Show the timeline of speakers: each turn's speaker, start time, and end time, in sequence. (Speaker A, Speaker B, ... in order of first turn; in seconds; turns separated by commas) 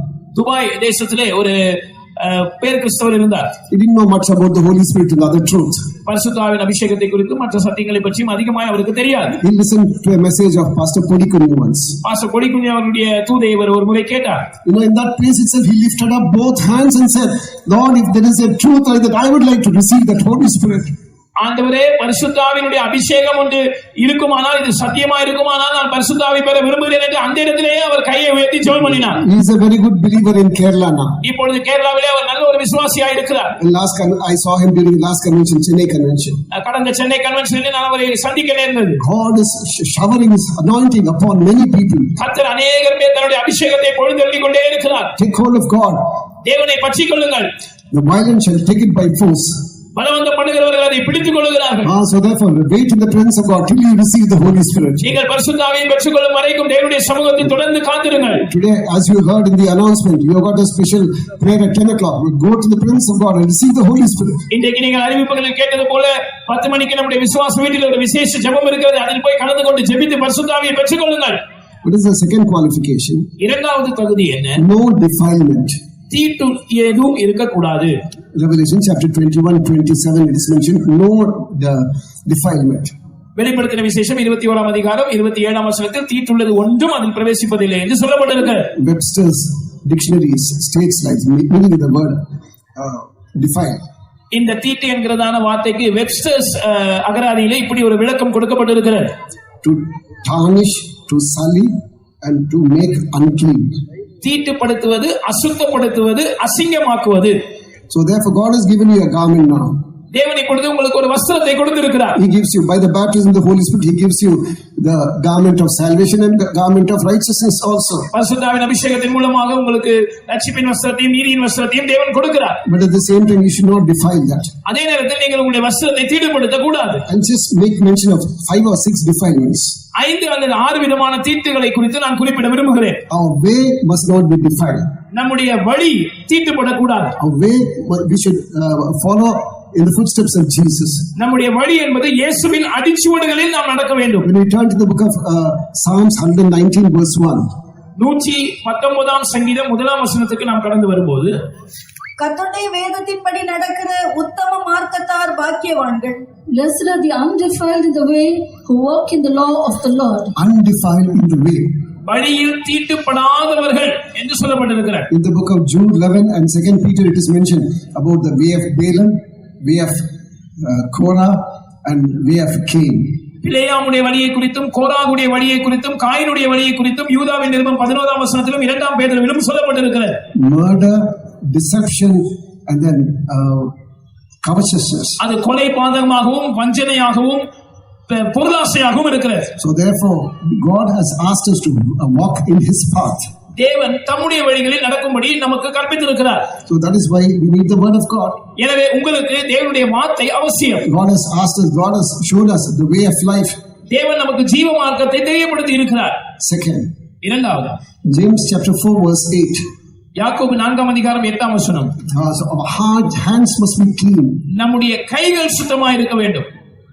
Speaker A: 0.3-3.5, Speaker B: 3.7-5.8, Speaker A: 6.1-9.4, Speaker B: 9.4-12.0, Speaker A: 12.0-14.4, Speaker B: 14.7-20.9, Speaker A: 21.4-29.2, Speaker B: 28.7-31.2, Speaker A: 31.2-33.5, Speaker B: 33.6-36.4, Speaker A: 36.5-39.0, Speaker B: 39.0-42.1, Speaker A: 42.2-45.1, Speaker B: 45.2-46.0, Speaker A: 46.4-47.5, Speaker B: 47.9-49.7, Speaker A: 50.0-51.9, Speaker B: 51.8-55.1, Speaker A: 55.0-58.4, Speaker B: 58.4-64.4, Speaker A: 64.5-71.4, Speaker B: 71.8-73.3, Speaker A: 73.4-74.6, Speaker B: 74.6-75.8, Speaker A: 76.1-78.0, Speaker B: 78.3-83.0, Speaker A: 83.4-88.7, Speaker B: 88.8-92.2, Speaker B: 92.8-93.8, Speaker A: 94.3-99.1, Speaker B: 99.6-101.7, Speaker B: 102.2-103.7, Speaker A: 104.2-107.4, Speaker B: 107.9-109.8, Speaker A: 110.1-112.2, Speaker B: 112.2-118.1, Speaker A: 118.1-122.6, Speaker B: 122.7-124.5, Speaker A: 124.7-127.0, Speaker B: 127.1-129.8, Speaker A: 129.9-133.0, Speaker B: 133.1-134.9, Speaker A: 135.1-137.2, Speaker B: 137.2-141.1, Speaker A: 141.2-144.3, Speaker B: 144.2-147.5, Speaker A: 148.0-151.4, Speaker C: 152.2-156.2, Speaker D: 156.5-160.3, Speaker B: 160.4-161.8, Speaker A: 162.1-165.1, Speaker B: 165.1-170.1, Speaker B: 170.6-173.2, Speaker A: 173.4-180.2, Speaker B: 180.3-183.7, Speaker B: 184.4-185.2, Speaker A: 185.2-187.5, Speaker A: 188.1-189.5, Speaker B: 189.6-193.2, Speaker A: 193.6-196.5, Speaker B: 196.7-198.4, Speaker A: 198.6-200.9, Speaker B: 200.8-203.6, Speaker A: 203.9-206.2, Speaker B: 206.4-206.9, Speaker A: 207.2-207.8, Speaker B: 208.1-209.6, Speaker A: 210.2-211.9, Speaker B: 212.1-214.4, Speaker A: 214.5-216.5